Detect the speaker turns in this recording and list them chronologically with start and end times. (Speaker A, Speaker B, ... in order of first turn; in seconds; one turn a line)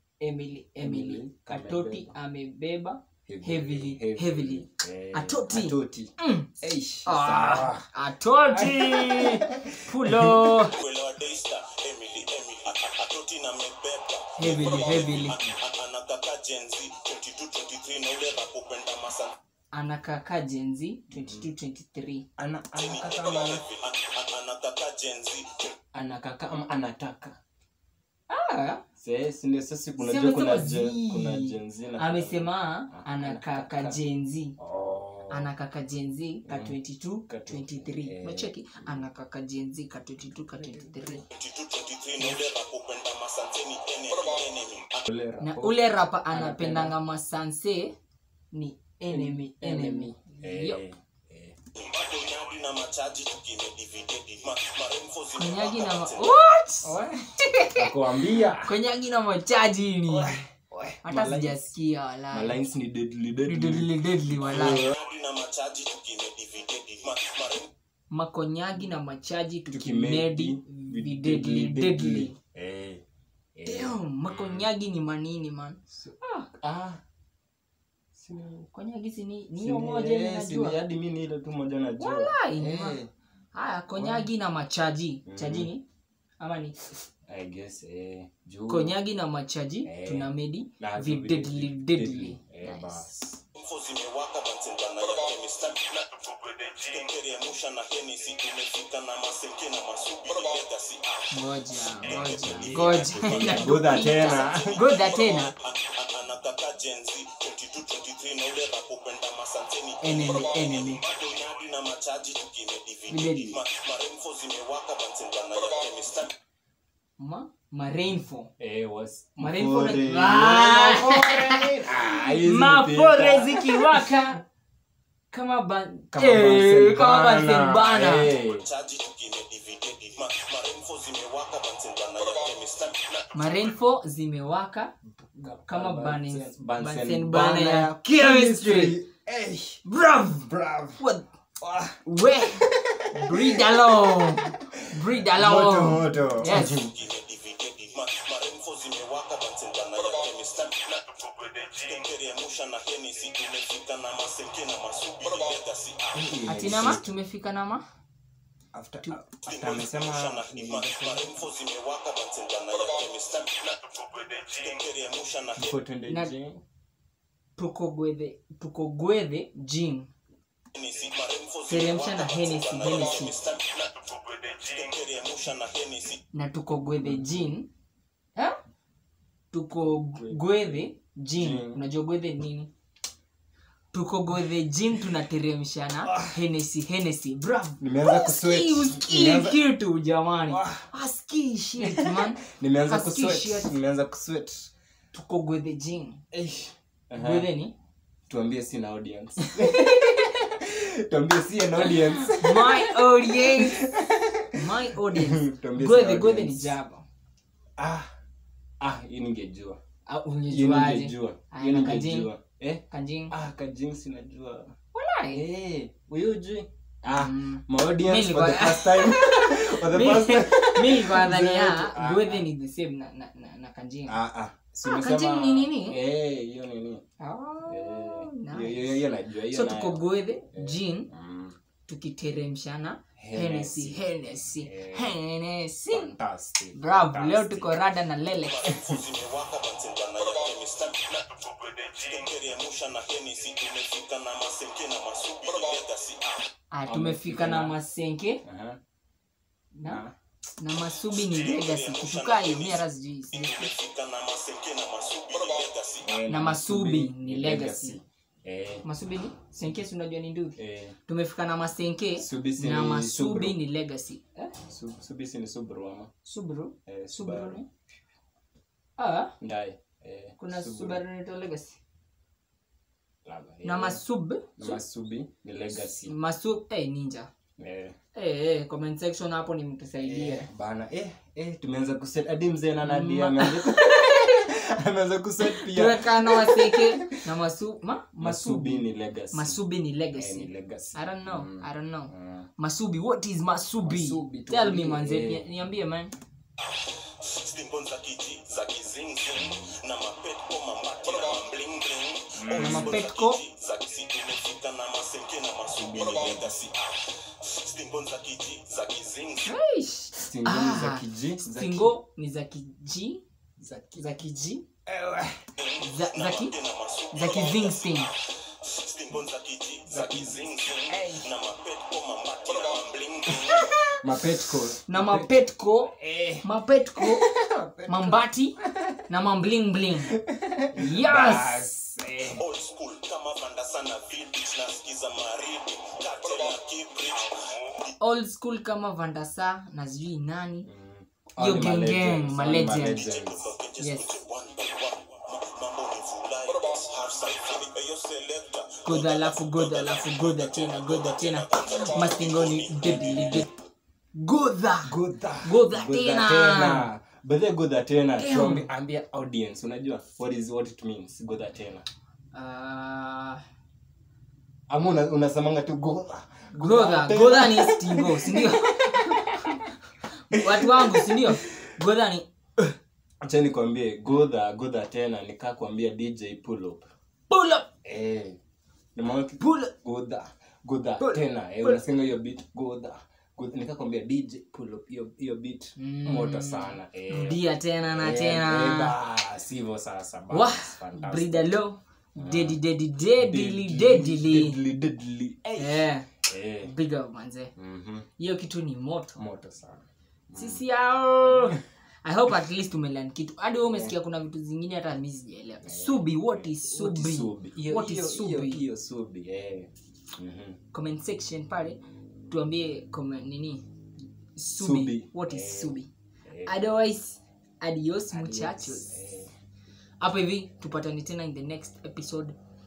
Speaker A: 0.2-6.5
Speaker B: 0.8-2.1
Speaker B: 3.3-7.9
Speaker A: 7.0-10.8
Speaker B: 8.4-10.6
Speaker C: 10.7-19.4
Speaker A: 14.4-15.4
Speaker B: 14.4-15.5
Speaker A: 19.7-22.3
Speaker B: 21.1-21.5
Speaker B: 22.4-23.6
Speaker C: 22.8-25.8
Speaker B: 25.9-27.4
Speaker A: 28.3-28.8
Speaker B: 29.0-34.0
Speaker A: 30.0-34.6
Speaker B: 34.6-35.5
Speaker A: 35.3-41.3
Speaker B: 36.5-36.8
Speaker B: 37.3-38.6
Speaker B: 40.6-41.2
Speaker C: 41.3-45.0
Speaker B: 45.0-47.0
Speaker A: 45.4-47.9
Speaker A: 48.5-50.8
Speaker B: 49.1-51.6
Speaker C: 51.7-56.4
Speaker A: 55.3-57.9
Speaker B: 56.8-57.2
Speaker B: 57.7-58.7
Speaker A: 58.6-60.4
Speaker B: 60.1-61.6
Speaker A: 61.0-62.6
Speaker B: 62.3-65.0
Speaker A: 63.5-64.9
Speaker C: 64.9-67.7
Speaker A: 68.1-72.3
Speaker B: 69.7-73.0
Speaker B: 73.5-74.7
Speaker A: 73.7-76.5
Speaker B: 76.0-77.0
Speaker B: 78.1-78.7
Speaker A: 78.7-80.8
Speaker B: 79.6-83.1
Speaker A: 82.0-83.0
Speaker A: 83.5-85.8
Speaker B: 84.0-84.3
Speaker B: 85.3-85.7
Speaker A: 86.4-86.8
Speaker B: 87.3-89.0
Speaker A: 88.7-93.1
Speaker B: 89.8-93.4
Speaker C: 93.5-101.3
Speaker A: 101.3-105.5
Speaker B: 101.9-104.8
Speaker C: 102.0-103.2
Speaker C: 104.2-116.3
Speaker A: 110.0-111.0
Speaker A: 113.1-113.6
Speaker A: 117.2-118.5
Speaker B: 118.6-124.1
Speaker A: 119.4-124.4
Speaker A: 125.3-128.3
Speaker B: 126.1-128.7
Speaker C: 128.4-133.5
Speaker A: 133.3-134.9
Speaker B: 135.3-139.8
Speaker A: 135.7-139.0
Speaker A: 139.9-141.3
Speaker B: 140.4-141.0
Speaker B: 141.6-144.1
Speaker A: 142.1-146.8
Speaker B: 144.8-146.9
Speaker C: 146.7-156.3
Speaker B: 156.1-157.1
Speaker A: 156.5-157.8
Speaker B: 158.7-161.5
Speaker C: 159.4-165.8
Speaker B: 165.6-166.6
Speaker A: 167.6-170.1
Speaker C: 170.7-176.2
Speaker A: 171.7-173.4
Speaker A: 176.3-177.7
Speaker B: 177.0-177.5
Speaker A: 179.5-182.7
Speaker B: 179.8-180.8
Speaker B: 181.3-181.8
Speaker A: 183.9-193.8
Speaker B: 186.1-186.3
Speaker B: 187.8-189.6
Speaker B: 190.5-190.9
Speaker B: 191.8-194.7
Speaker A: 195.1-196.2
Speaker B: 196.3-197.5
Speaker A: 197.1-197.7
Speaker B: 198.3-206.8
Speaker A: 199.6-200.4
Speaker A: 201.8-203.9
Speaker A: 204.5-207.1
Speaker B: 207.8-208.1
Speaker B: 208.8-209.8
Speaker A: 210.1-212.3
Speaker B: 210.5-214.7
Speaker A: 212.9-213.3
Speaker A: 214.9-215.4
Speaker B: 215.3-222.5
Speaker A: 217.1-224.2
Speaker B: 224.1-227.0
Speaker A: 224.8-226.0
Speaker A: 227.2-229.0
Speaker B: 227.7-231.6
Speaker A: 229.5-231.1
Speaker A: 231.9-236.2
Speaker B: 233.2-234.0
Speaker B: 234.6-235.2
Speaker B: 235.9-237.8
Speaker A: 236.7-238.7
Speaker C: 238.4-246.5
Speaker B: 238.7-239.0
Speaker A: 246.7-248.4
Speaker B: 246.9-247.8
Speaker B: 248.4-248.8
Speaker A: 249.7-250.0
Speaker B: 249.8-250.1
Speaker A: 250.6-253.7
Speaker C: 251.1-256.2
Speaker B: 256.0-258.9
Speaker A: 256.3-258.0
Speaker A: 258.8-264.6
Speaker B: 260.6-261.0
Speaker B: 262.2-263.6
Speaker B: 264.7-266.1
Speaker A: 266.2-267.7
Speaker B: 266.9-267.6
Speaker A: 269.0-269.3
Speaker B: 269.4-271.0
Speaker A: 270.4-271.8
Speaker B: 273.2-274.0
Speaker A: 273.6-274.8
Speaker B: 274.6-276.1
Speaker A: 276.0-277.3
Speaker B: 277.6-278.0
Speaker A: 278.1-280.5
Speaker B: 280.0-287.2
Speaker A: 282.8-284.5
Speaker A: 285.4-296.1
Speaker B: 288.2-289.6
Speaker B: 290.1-292.5
Speaker B: 293.8-295.5
Speaker C: 297.2-309.6
Speaker B: 299.4-299.8
Speaker B: 302.4-303.0
Speaker A: 302.5-303.4
Speaker B: 305.7-306.6
Speaker A: 309.5-313.2
Speaker B: 310.2-311.9
Speaker B: 313.6-314.1
Speaker A: 313.9-314.6
Speaker B: 314.9-315.4
Speaker C: 315.6-323.8
Speaker A: 315.8-316.5
Speaker A: 317.1-318.1
Speaker B: 319.9-321.3
Speaker B: 323.4-325.3
Speaker A: 324.9-327.3
Speaker B: 325.9-329.0
Speaker A: 327.9-328.6
Speaker A: 329.1-330.1
Speaker B: 330.1-332.4
Speaker A: 330.7-331.7
Speaker C: 332.4-337.9
Speaker A: 338.0-340.7
Speaker B: 340.7-343.5
Speaker A: 341.4-343.2
Speaker C: 343.0-353.1
Speaker A: 343.8-344.2
Speaker A: 348.8-353.5
Speaker B: 353.1-353.4
Speaker A: 354.1-356.9
Speaker B: 354.9-361.9
Speaker A: 358.2-358.7
Speaker A: 362.3-363.4
Speaker B: 364.7-369.5
Speaker A: 366.6-369.7
Speaker A: 370.3-372.8
Speaker B: 370.3-371.2
Speaker B: 373.2-376.9
Speaker A: 377.3-377.7
Speaker B: 377.8-378.4
Speaker B: 378.9-391.6
Speaker A: 379.4-379.7
Speaker A: 381.0-381.8
Speaker A: 385.8-388.9
Speaker A: 390.3-394.6
Speaker B: 392.2-392.6
Speaker B: 393.2-396.7
Speaker A: 395.6-396.1
Speaker A: 396.6-397.5
Speaker B: 397.6-398.1
Speaker A: 398.2-399.2
Speaker B: 399.2-400.6
Speaker A: 400.4-408.6
Speaker B: 401.3-401.6
Speaker B: 403.7-403.9
Speaker B: 405.6-410.6
Speaker A: 410.7-411.8
Speaker A: 412.3-413.7
Speaker A: 414.4-415.9
Speaker B: 414.6-416.5
Speaker A: 416.4-419.0
Speaker B: 418.1-419.3
Speaker A: 420.0-422.4